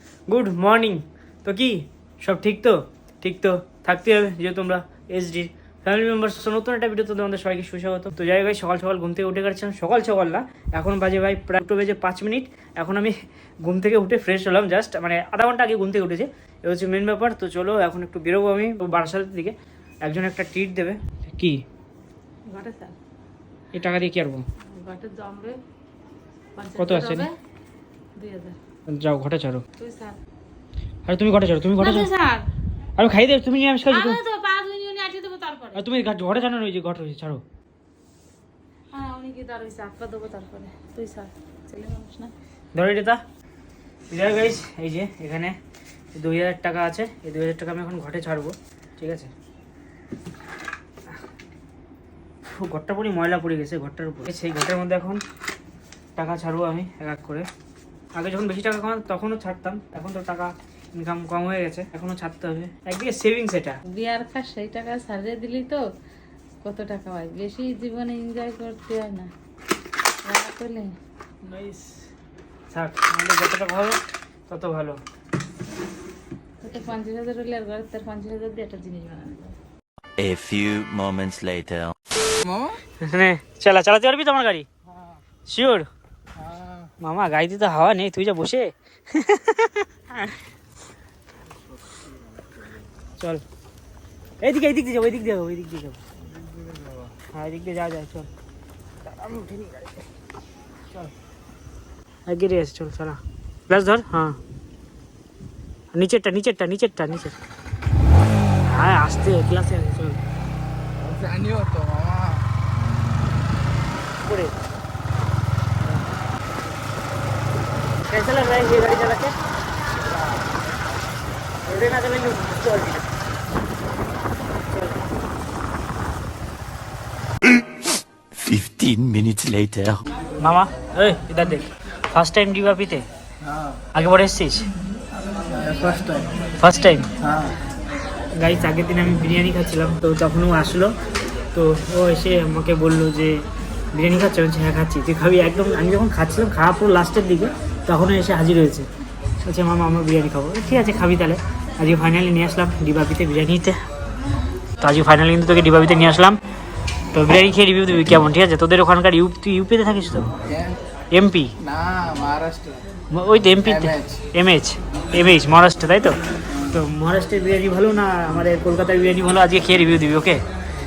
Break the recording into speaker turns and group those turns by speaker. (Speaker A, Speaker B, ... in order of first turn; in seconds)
Speaker A: 0.3-21.6, 23.7-24.4, 26.8-27.3, 28.9-29.6, 31.1-32.1, 33.0-34.2, 35.7-37.4, 42.7-43.2, 44.1-45.5, 46.1-49.3, 52.4-55.2, 56.1-57.4, 58.1-63.8, 71.4-72.0, 72.7-75.0, 83.0-84.7, 85.5-85.9, 87.0-90.3, 94.4-96.0, 97.3-98.3, 99.1-99.9, 102.3-104.4, 105.9-107.3, 108.7-110.2, 114.2-114.5, 118.0-119.4, 121.6-123.1, 124.7-125.1, 130.4-133.0, 133.9-134.7, 136.6-137.1, 138.3-140.9, 141.5-143.4, 143.9-148.9, 149.4-153.8, 154.8-156.4, 157.1-160.3, 161.1-161.5, 163.1-166.2, 166.7-170.4
Speaker B: 22.5-22.9, 24.7-25.6, 26.6-27.3, 28.1-28.6, 29.8-30.2, 31.8-32.5, 33.9-35.8, 38.9-42.3, 63.9-65.8, 66.6-69.3, 70.2-70.9, 76.6-79.5
Speaker C: 80.2-81.9, 128.4-130.0
Speaker D: 82.4-82.8, 86.4-86.9, 111.0-112.5, 133.4-133.8, 135.5-136.3, 137.2-137.5, 160.5-160.8, 161.6-162.9, 163.6-164.2